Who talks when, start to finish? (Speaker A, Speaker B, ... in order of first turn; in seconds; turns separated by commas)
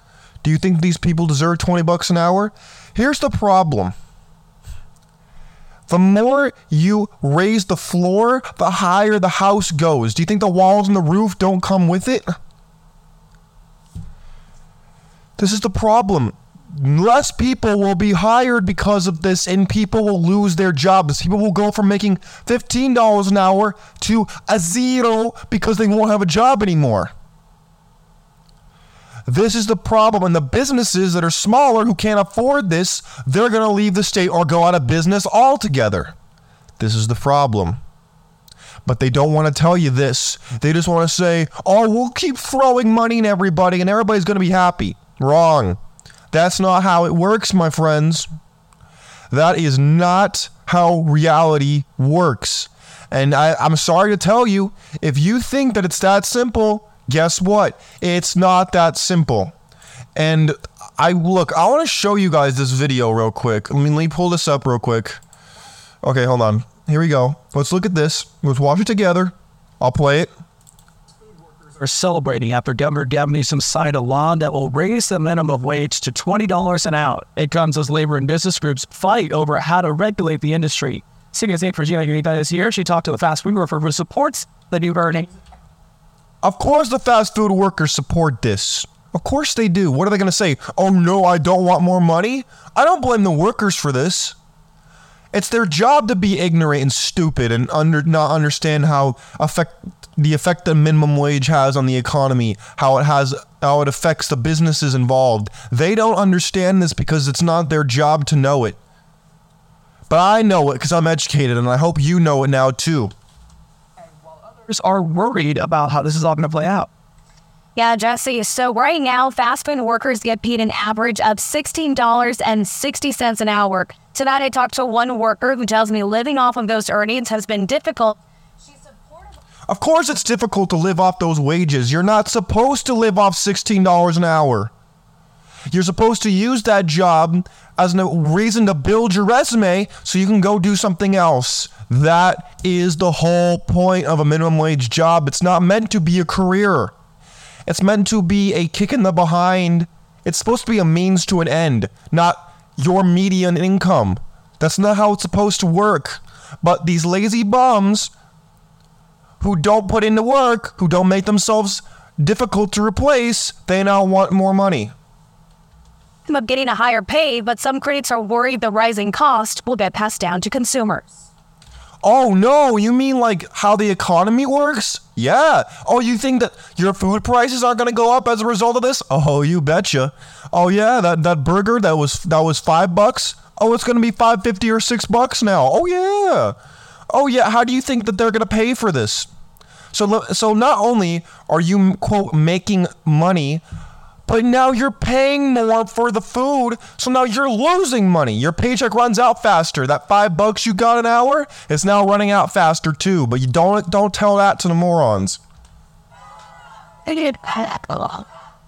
Speaker A: 0.4-3.9, Speaker A: 5.9-12.3, Speaker A: 15.4-27.1, Speaker A: 29.3-36.1, Speaker A: 36.8-37.8, Speaker A: 38.8-45.8, Speaker A: 46.3-48.3, Speaker A: 49.3-59.5, Speaker A: 60.1-65.2, Speaker A: 66.0-70.3, Speaker B: 71.8-85.3, Speaker A: 86.4-94.3, Speaker A: 95.3-108.8, Speaker A: 110.1-113.1, Speaker B: 114.7-116.9, Speaker C: 117.8-128.2, Speaker A: 129.7-134.7, Speaker A: 135.7-146.9, Speaker A: 147.7-158.1, Speaker A: 159.4-164.9, Speaker C: 166.3-171.0, Speaker A: 172.0-186.6, Speaker A: 187.1-189.3, Speaker A: 189.9-193.6, Speaker A: 194.2-205.4, Speaker C: 207.1-208.2